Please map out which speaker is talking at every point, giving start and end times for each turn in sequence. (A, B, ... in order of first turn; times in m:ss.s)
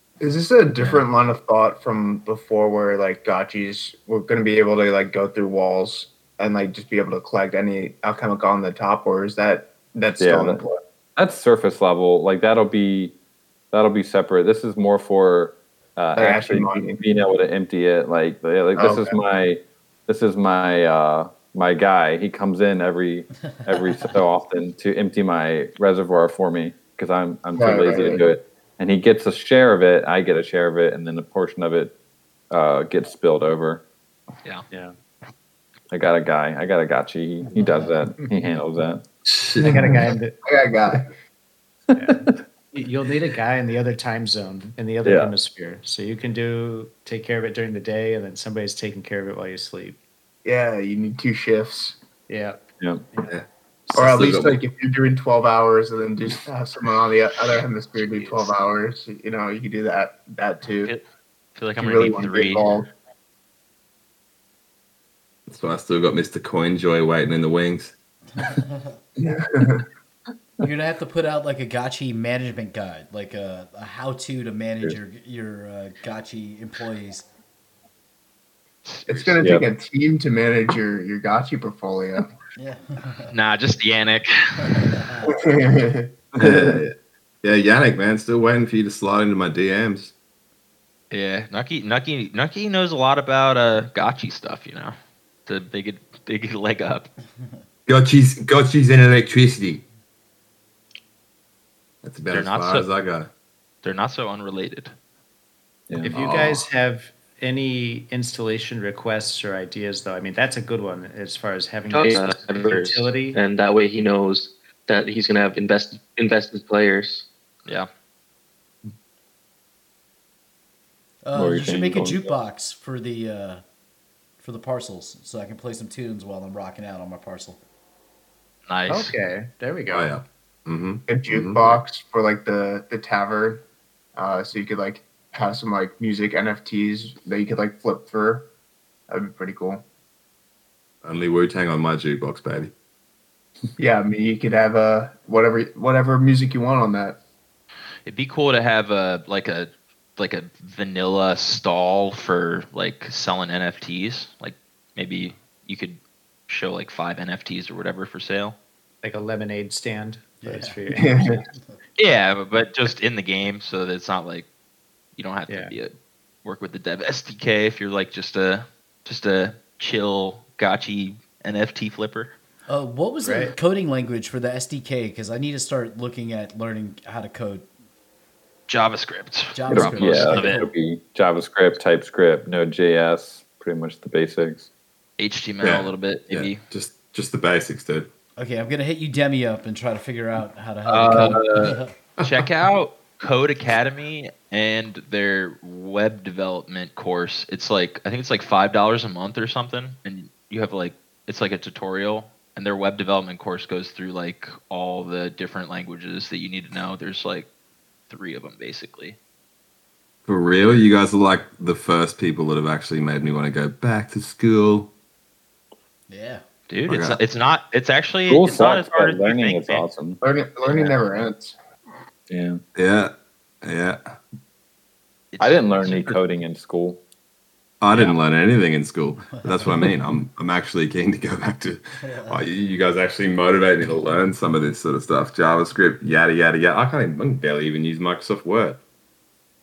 0:00.2-0:10.8 A
0:10.2-0:10.6 B
0:11.2-0:13.2 B
0:13.7-0:31.9 B
0:16.2-0:17.0 A
0:18.8-0:19.2 A
0:27.6-0:28.2 A
0:32.5-0:33.8 B
0:35.9-0:39.0 B
0:37.6-0:37.9 C
0:39.3-0:40.0 D
0:39.6-0:40.4 C
0:39.6-0:41.1 A
0:41.9-0:42.4 B
0:42.0-0:50.0 C
0:45.0-0:45.3 B
0:50.4-0:52.0 A
0:52.3-0:52.6 C
0:54.0-1:00.9 A
0:54.0-0:54.6 D
0:58.1-0:58.5 E
1:01.6-1:02.8 E
1:01.8-1:02.9 A
1:05.5-1:07.9 D
1:08.4-1:09.0 F
1:09.2-1:09.8 A
1:10.6-1:17.3 F
1:18.8-1:19.6 E
1:19.1-1:22.3 A
1:22.6-1:23.3 F
1:23.3-1:25.0 E
1:24.6-1:25.3 F
1:25.3-1:26.1 A
1:26.4-1:30.1 D
1:26.4-1:26.8 B
1:31.1-1:37.1 E
1:37.9-1:39.8 D
1:42.0-1:43.3 D
1:42.3-1:42.9 E
1:43.8-1:44.9 E
1:46.0-1:53.4 C
1:46.1-1:46.7 D
1:51.9-1:57.3 G
2:01.2-2:03.6 F
2:01.3-2:02.3 B
2:04.4-2:07.6 F
2:08.7-2:09.1 E
2:08.9-2:10.2 C
2:09.9-2:11.8 D
2:11.1-2:13.6 A
2:14.2-2:18.5 A
2:19.1-2:19.8 A
2:21.0-2:22.7 D
2:23.8-2:27.2 A
2:28.0-2:38.6 E
2:39.0-2:41.4 C
2:40.4-2:40.8 F
2:40.9-2:41.4 A
2:42.0-2:44.5 E
2:45.2-2:52.3 E
2:45.5-2:45.8 C
2:52.7-2:57.6 F
2:53.2-2:53.5 C
2:58.7-3:00.7 E
2:59.5-3:00.6 F
2:59.7-3:04.7 B
3:05.2-3:06.6 E
3:05.6-3:08.1 D
3:08.4-3:11.9 F
3:10.9-3:27.5 E
3:28.1-3:29.2 E
3:30.3-3:34.9 D
3:36.1-3:36.4 F
3:36.7-3:39.8 E
3:36.9-3:37.2 D
3:38.3-3:40.2 B
3:40.2-3:41.6 A
3:40.7-3:41.0 E
3:42.3-3:42.6 B
3:42.8-3:44.0 D
3:45.3-3:46.2 E
3:45.4-3:47.0 B
3:47.8-3:58.8 D
3:47.9-3:48.2 E
3:52.0-3:52.4 F